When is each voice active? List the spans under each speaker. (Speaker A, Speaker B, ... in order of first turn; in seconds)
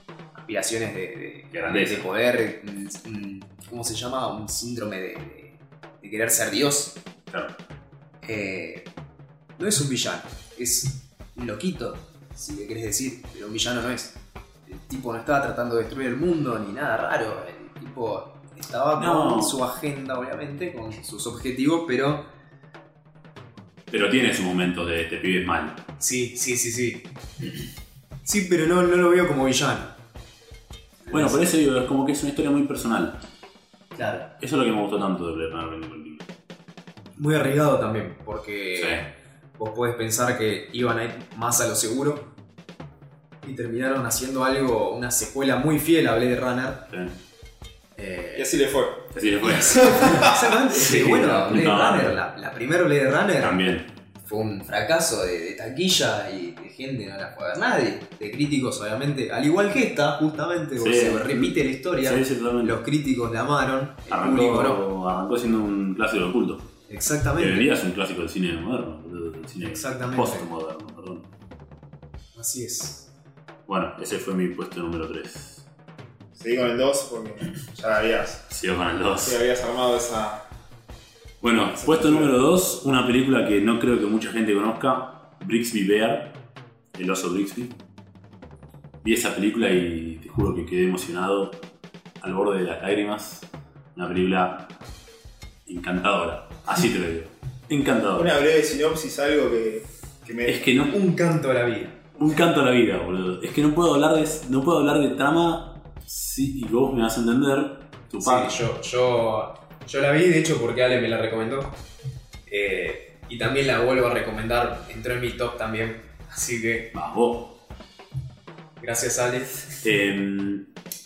Speaker A: 0.4-7.0, 8.2-8.9, 9.6-22.3, 26.0-27.1, 28.2-29.9, 31.1-31.4, 34.0-34.3, 37.2-42.3, 43.4-46.9, 48.0-48.4, 49.5-53.6, 54.2-64.8, 66.9-67.7, 69.6-70.5, 72.3-73.1, 100.9-102.0, 108.2-111.8, 112.5-116.9, 118.8-119.7
Speaker B: 1.5-2.1, 19.0-19.6, 23.9-25.8, 31.1-33.2, 34.4-36.3, 38.8-39.1, 46.9-47.2, 49.1-52.2, 53.4-53.9, 60.8-62.8, 64.1-66.7, 67.4-71.3, 73.7-75.7, 78.5-79.4, 81.4-86.4, 87.0-87.8, 89.0-91.6, 92.2-94.7, 95.7-98.4, 100.5-101.0, 102.2-108.6, 116.9-117.6, 119.8-120.7
Speaker C: 48.4-49.1, 76.3-78.4, 79.2-80.5, 81.8-82.3, 98.2-100.7